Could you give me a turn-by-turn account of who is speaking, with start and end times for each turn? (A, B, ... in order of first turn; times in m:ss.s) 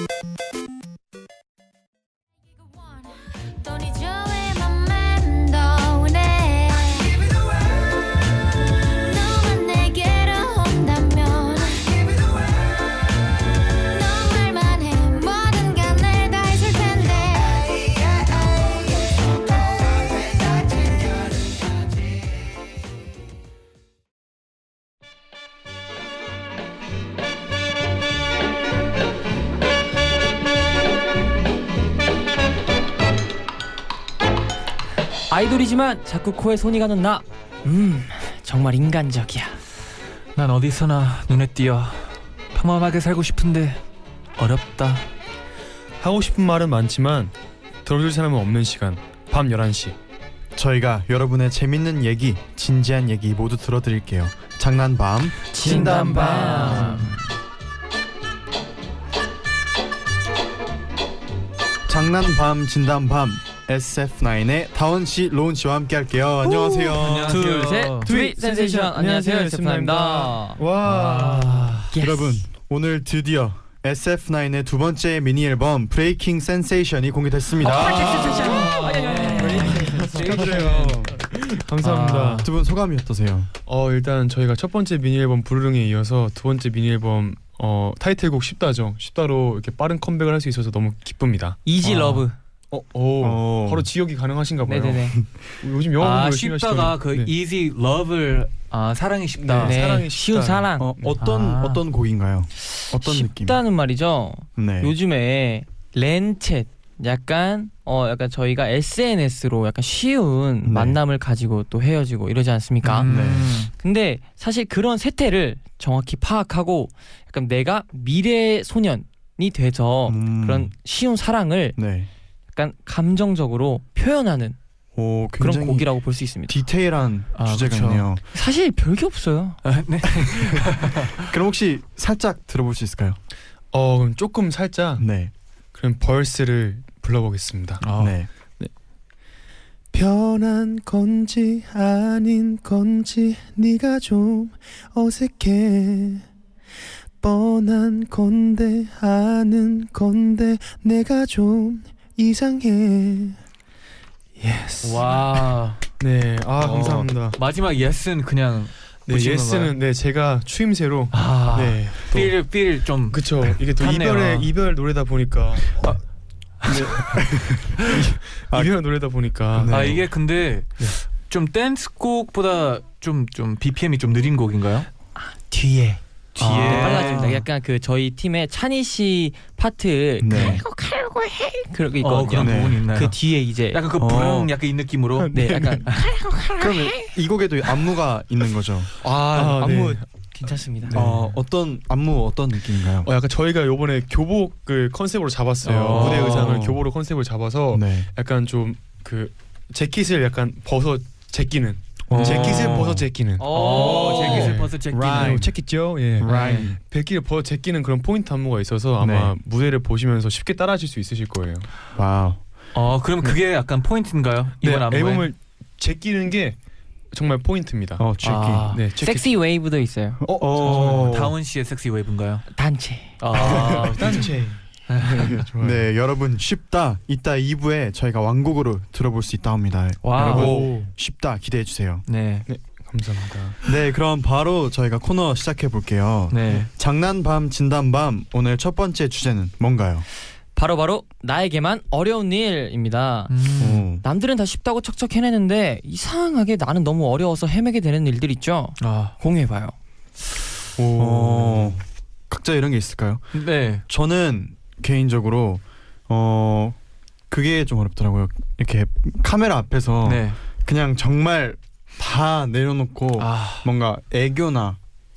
0:02.6-0:07.6 A
0:08.9-0:12.3 A
0:13.7-0:19.3 A
0:19.8-0:21.0 A
0:35.3-0:39.6 B
0:40.4-0:43.8 C
0:44.4-0:45.1 C
0:46.0-0:47.3 D
0:47.8-0:50.0 D
0:50.5-0:57.1 E
0:55.5-0:57.2 B
1:01.9-1:07.4 E
1:06.4-1:10.6 B
1:06.9-1:08.1 C
1:08.0-1:11.8 D
1:10.8-1:11.9 C
1:11.9-1:12.4 B
1:11.9-1:18.6 E
1:17.6-1:20.5 B
1:17.7-1:22.5 D
1:17.8-1:21.1 C
1:20.1-1:21.0 E
1:21.8-1:22.5 C
1:22.4-1:23.5 E
1:23.6-1:32.1 D
1:31.6-1:32.3 B
1:31.8-1:32.2 C
1:32.7-1:37.3 D
1:33.2-1:33.9 E
1:34.6-1:35.2 B
1:36.0-1:39.8 C
1:39.4-1:41.2 D
1:39.6-1:40.9 B
1:40.8-1:43.6 E
1:41.2-1:41.8 C
1:42.9-1:53.1 B
1:44.6-1:44.9 E
1:50.6-1:51.0 E
1:52.8-1:53.7 C
1:53.0-1:53.7 E
1:53.7-2:01.8 B
2:00.0-2:00.7 E
2:01.8-2:02.1 E
2:02.5-2:04.6 B
2:05.0-2:05.9 E
2:05.4-2:06.6 B
2:06.5-2:08.2 E
2:07.3-2:08.1 C
2:08.3-2:09.6 B
2:09.6-2:11.3 C
2:10.4-2:13.2 E
2:13.7-2:15.0 D
2:15.0-2:15.3 E
2:15.7-2:17.8 D
2:17.8-2:18.1 C
2:18.0-2:18.3 E
2:19.9-2:26.2 D
2:27.2-2:33.4 D
2:34.4-2:37.4 D
2:34.8-2:35.8 C
2:36.6-2:39.8 C
2:39.1-2:41.1 D
2:41.1-2:44.5 C
2:41.5-2:42.2 E
2:43.1-2:46.0 D
2:46.6-2:47.1 C
2:46.6-2:48.7 E
2:47.9-2:50.0 D
2:49.5-2:50.1 E
2:49.7-2:54.9 C
2:55.2-3:03.8 B
2:56.4-2:57.4 C
2:56.4-2:57.4 E
3:00.2-3:00.6 E
3:00.3-3:00.6 C
3:02.0-3:06.0 C
3:02.4-3:02.8 E
3:04.0-3:04.5 E
3:05.2-3:05.9 D
3:05.3-3:07.1 B
3:06.6-3:08.9 E
3:09.0-3:11.0 B
3:09.3-3:10.0 D
3:10.8-3:11.4 D
3:10.9-3:13.1 E
3:13.0-3:31.7 D
3:15.6-3:16.8 E
3:15.7-3:16.6 C
3:17.7-3:18.1 E
3:22.1-3:23.1 E
3:22.1-3:22.9 C
3:23.4-3:24.5 B
3:23.5-3:25.5 C
3:24.0-3:25.5 E
3:26.1-3:26.8 E
3:29.0-3:29.3 E
3:31.9-3:32.4 E
3:32.7-3:35.3 C
3:34.6-3:36.6 D
3:37.1-3:38.0 D
3:38.0-3:38.8 E
3:38.2-3:39.1 C
3:38.7-3:39.0 D
3:39.0-3:40.2 B
3:40.2-3:41.4 E
3:40.2-3:41.2 D
3:40.6-3:42.4 C
3:42.5-3:43.2 B
3:43.2-3:44.4 C
3:43.3-3:45.8 D
3:43.4-3:44.2 E
3:44.9-3:45.4 C
3:45.2-3:52.0 E
3:50.0-3:50.7 C
3:50.1-3:50.9 D
3:52.1-3:52.5 C
3:52.5-3:53.6 D
3:53.6-4:00.0 E
3:56.3-3:56.7 C
4:00.5-4:03.4 B
4:03.3-4:03.8 C
4:03.6-4:04.0 E
4:04.0-4:09.7 B
4:08.8-4:09.1 C
4:10.8-4:11.7 D
4:10.9-4:13.3 E
4:13.3-4:13.8 C
4:13.9-4:16.8 E
4:17.3-4:24.8 E
4:20.0-4:20.4 C
4:23.2-4:23.7 C